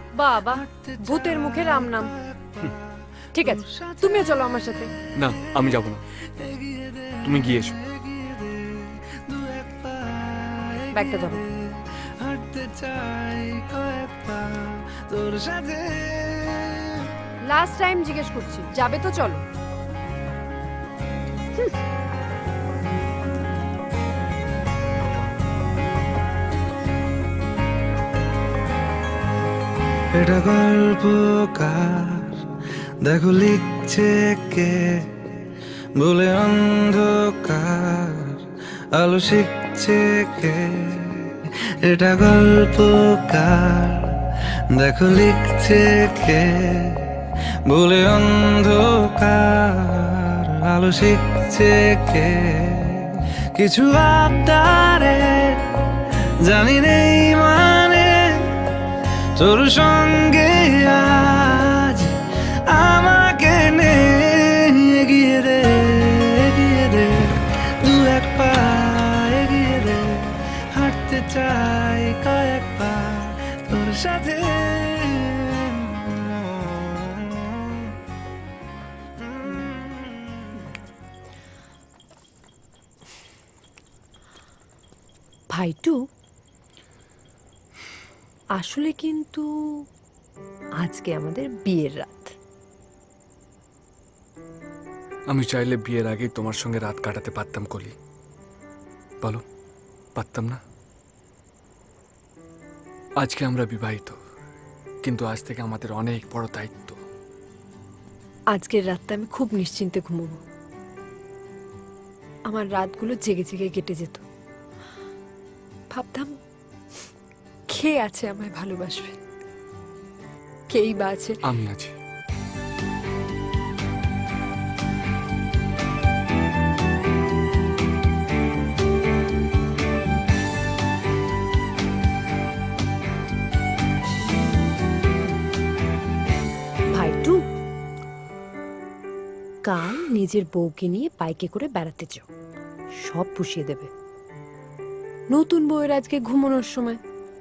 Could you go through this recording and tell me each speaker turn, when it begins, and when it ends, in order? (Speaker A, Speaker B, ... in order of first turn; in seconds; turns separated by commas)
Speaker A: 0.1-2.1, Speaker B: 0.4-4.5, Speaker A: 3.3-4.9, Speaker C: 5.2-6.0, Speaker B: 6.2-17.1, Speaker C: 7.2-7.8, Speaker A: 10.9-11.4, Speaker A: 17.5-19.4, Speaker B: 30.1-35.2, Speaker B: 36.0-55.8, Speaker B: 56.4-58.6, Speaker B: 59.4-76.9, Speaker A: 85.5-86.0, Speaker A: 88.5-89.9, Speaker A: 90.8-92.3, Speaker C: 95.3-98.0, Speaker C: 100.2-100.6, Speaker C: 103.2-104.2, Speaker C: 105.0-107.0, Speaker A: 108.5-110.4, Speaker A: 112.5-114.2, Speaker A: 115.9-116.3, Speaker A: 117.7-119.2, Speaker A: 120.7-121.4, Speaker C: 121.4-122.0, Speaker A: 136.9-137.4, Speaker A: 139.6-142.3, Speaker A: 142.9-143.9, Speaker A: 145.3-147.0